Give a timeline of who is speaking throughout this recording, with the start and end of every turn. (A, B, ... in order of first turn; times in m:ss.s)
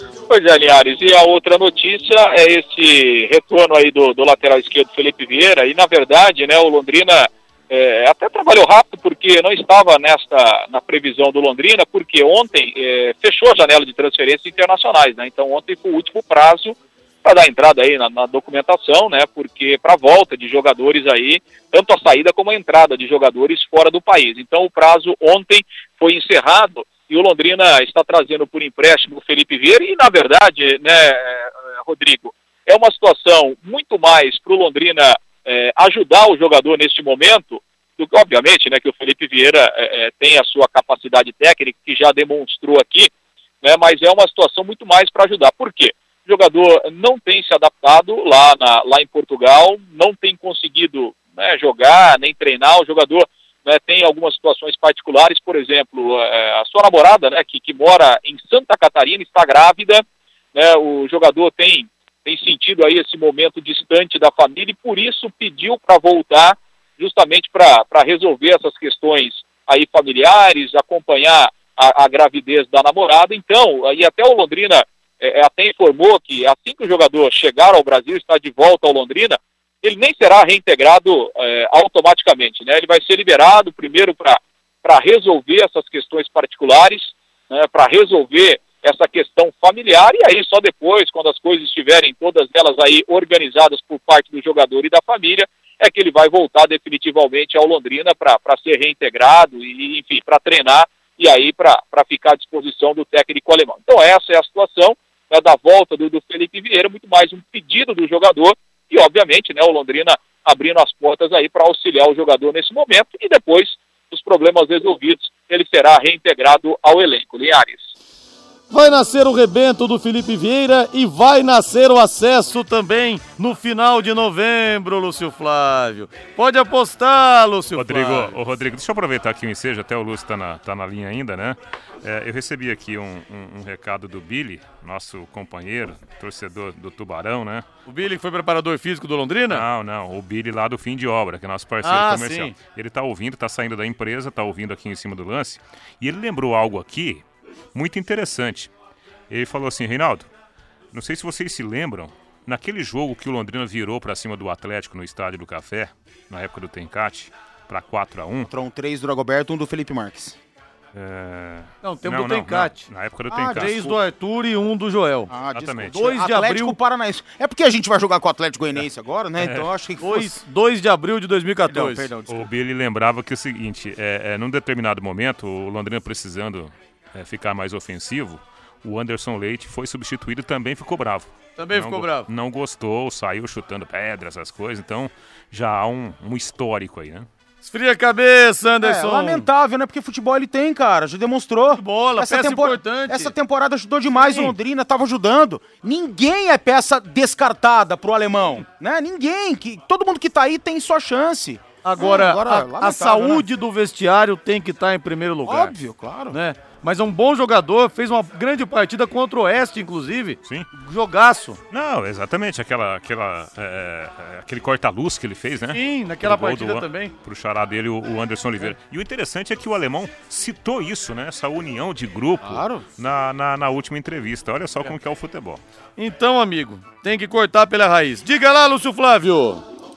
0:00.3-0:43.1 A
0:43.6-1:57.9 A
1:58.7-2:08.3 B
2:07.8-2:17.6 C
2:17.9-2:19.6 B
2:19.5-2:28.7 C
2:21.8-2:22.5 B
2:29.3-2:30.3 C
2:30.9-2:38.5 C
2:38.4-2:40.4 D
2:40.9-2:43.9 C
2:41.8-2:42.8 B
2:43.3-2:43.9 D
2:43.5-2:45.3 B
2:45.3-2:50.4 D
2:45.5-2:46.1 C
2:45.9-2:46.8 B
2:49.4-2:49.7 C
2:50.0-2:52.1 B
2:51.7-2:52.4 D
2:52.3-3:07.3 C
3:01.6-3:02.3 B
3:07.6-3:09.5 B
3:08.8-3:23.4 D
3:11.7-3:13.3 B
3:14.2-3:14.5 B
3:21.8-3:25.7 B
3:25.4-3:26.4 D
3:26.3-3:31.6 B
3:31.7-3:45.6 C
3:35.7-3:37.1 B
3:42.4-3:42.8 D
3:46.0-3:49.6 B